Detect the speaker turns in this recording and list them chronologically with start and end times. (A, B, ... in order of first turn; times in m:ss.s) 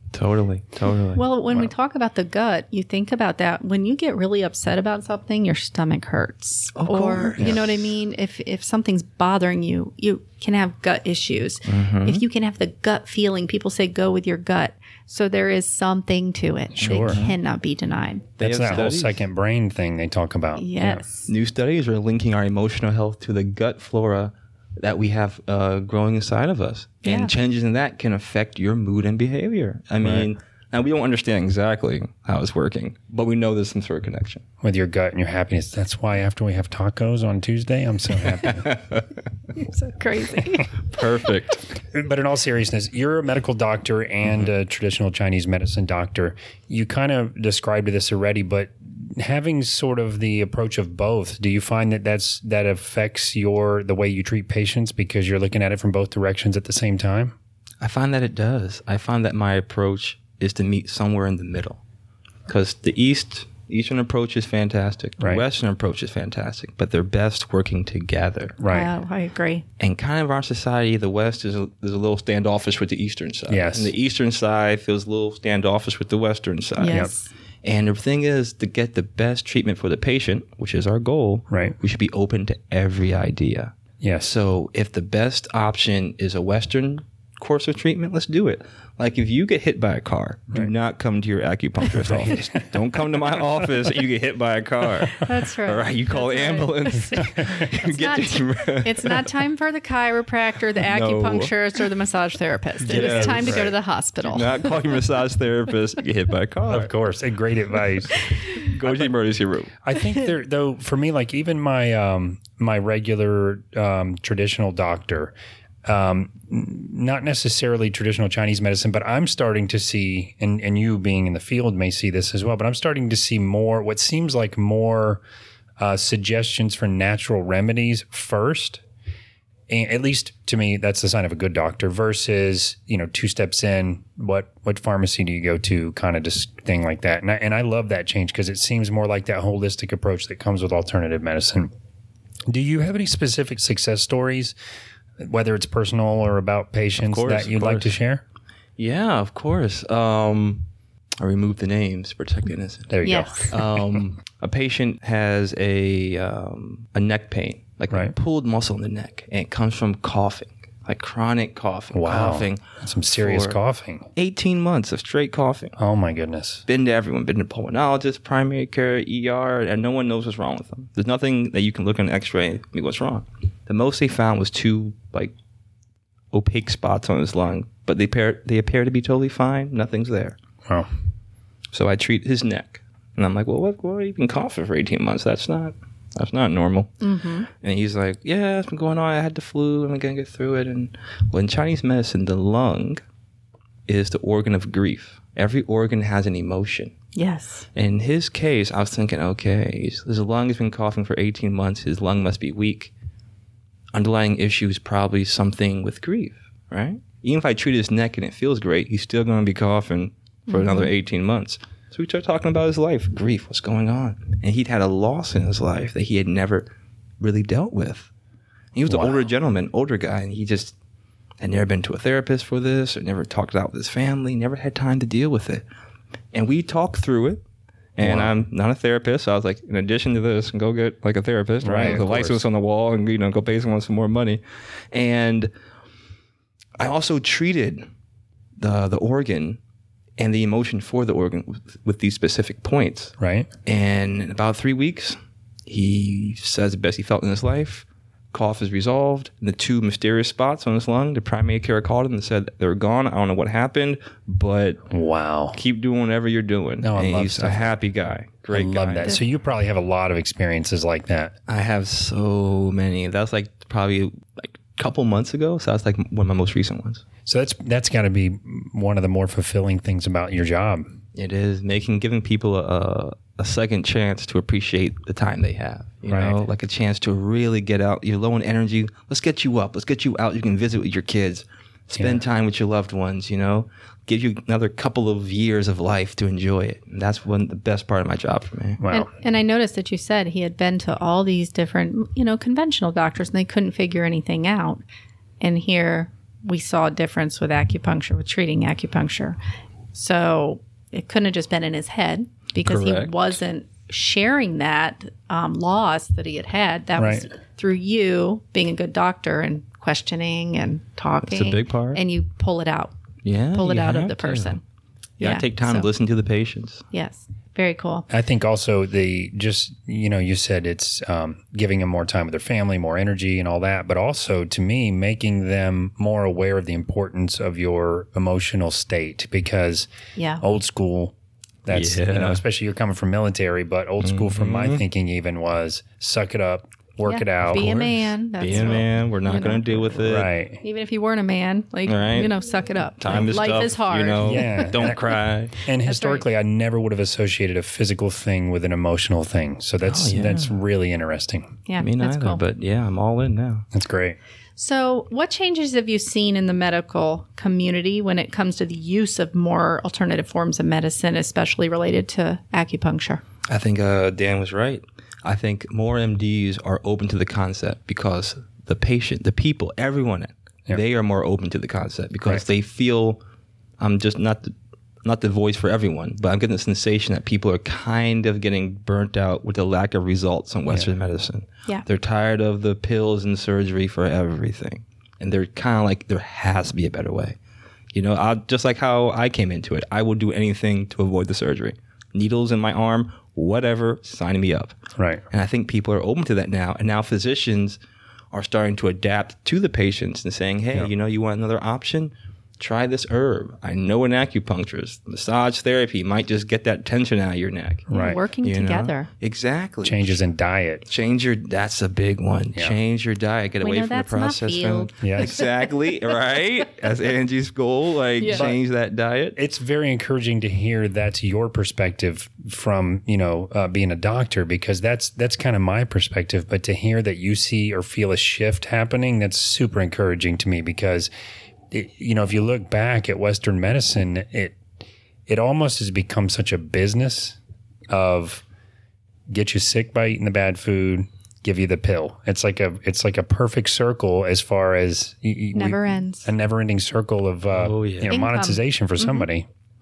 0:00.1-0:01.3 A
0:01.2-0:18.4 B
0:06.8-0:07.8 A
0:11.6-0:12.2 A
0:16.8-0:17.2 C
0:16.8-0:17.4 A
0:18.4-0:19.2 A
0:18.4-0:21.0 C
0:20.6-0:21.3 B
0:21.3-0:34.4 A
0:27.0-0:27.3 B
0:34.6-0:38.8 C
0:38.4-0:39.0 A
0:39.6-0:40.7 B
0:40.9-0:41.6 A
0:41.9-0:57.3 C
0:57.8-1:01.8 A
1:02.5-1:08.6 A
1:08.6-1:08.9 C
1:08.7-1:09.6 B
1:09.8-1:17.1 A
1:13.5-1:13.9 C
1:16.8-1:17.3 B
1:17.6-1:39.3 A
1:21.5-1:21.8 C
1:24.0-1:24.3 C
1:32.0-1:32.7 C
1:35.1-1:37.1 B
1:37.8-1:44.6 B
1:40.8-1:41.5 A
1:42.8-1:43.7 C
1:42.9-1:43.7 A
1:44.2-1:46.9 A
1:46.7-1:49.1 C
1:48.7-1:49.7 A
1:49.8-1:55.3 C
1:55.8-2:05.2 C
2:05.8-2:08.8 C
2:09.7-2:21.7 C
2:22.5-2:24.6 C
2:25.2-2:28.2 C
2:27.0-2:27.9 A
2:28.8-2:30.7 A
2:31.2-2:43.6 A
2:32.9-2:33.7 C
2:33.0-2:33.4 B
2:41.9-2:44.1 C
2:44.2-2:45.8 A
2:45.8-2:46.6 C
2:46.7-2:55.3 A
2:56.3-3:00.4 A
3:01.7-3:07.0 A
3:07.0-3:07.5 B
3:07.5-3:13.0 A
3:13.9-3:16.9 A
3:17.2-3:17.7 B
3:17.7-3:22.9 A
3:23.9-3:38.1 A
3:30.5-3:30.9 B
3:38.8-3:40.8 A
3:41.4-3:45.6 A
3:46.3-3:47.4 A
3:48.0-3:54.4 A
3:48.0-3:48.3 C
3:51.6-3:52.4 C
3:54.9-3:55.5 A
3:56.8-3:57.9 A
3:58.6-3:59.6 A
4:00.2-4:03.2 A
4:03.2-4:03.5 C
4:03.7-4:14.8 A
4:14.9-4:15.6 C
4:15.5-4:19.2 A
4:16.8-4:17.7 C
4:18.5-4:21.3 C
4:21.5-4:27.0 A
4:27.3-4:31.0 C
4:31.2-4:48.8 A
4:36.1-4:36.4 C
4:42.0-4:42.2 C
4:48.8-4:49.1 C
4:48.9-4:54.8 B
4:55.4-4:59.4 B
4:59.9-5:12.9 B
5:02.6-5:03.4 A
5:07.0-5:07.2 C
5:11.2-5:12.0 A
5:13.2-5:14.6 A
5:13.6-5:14.6 B
5:15.2-5:16.8 A
5:15.2-5:15.9 B
5:16.9-5:18.1 B
5:18.1-5:29.9 C
5:30.2-5:30.4 B
5:30.4-5:31.1 C
5:31.6-5:38.1 C
5:31.7-5:32.4 A
5:34.0-5:34.8 A
5:37.0-5:39.9 B
5:38.4-5:40.3 A
5:40.0-5:40.6 C
5:40.6-5:44.7 B
5:41.9-5:42.3 A
5:43.0-5:45.6 A
5:44.2-5:45.0 C
5:45.6-5:51.6 C
5:45.8-5:46.2 B
5:49.8-5:50.5 A
5:51.7-5:52.4 B
5:51.8-5:53.7 A
5:53.7-5:54.2 C
5:54.6-6:03.2 B
6:03.5-6:13.2 A
6:13.8-6:27.4 A
6:27.9-6:34.8 A
6:35.3-6:37.8 A
6:38.3-6:50.2 A
6:47.9-6:49.1 B
6:47.9-6:48.2 C
6:49.8-6:50.8 C
6:50.9-6:59.4 A
6:53.6-6:55.6 B
6:55.0-6:55.4 C
6:58.2-6:58.5 B
6:58.3-6:58.6 C
6:59.4-7:11.1 C
7:11.7-7:14.6 C
7:15.3-7:17.4 C
7:17.9-7:18.4 C
7:19.3-7:29.5 C
7:25.5-7:26.3 B
7:27.5-7:28.2 A
7:28.1-7:29.3 B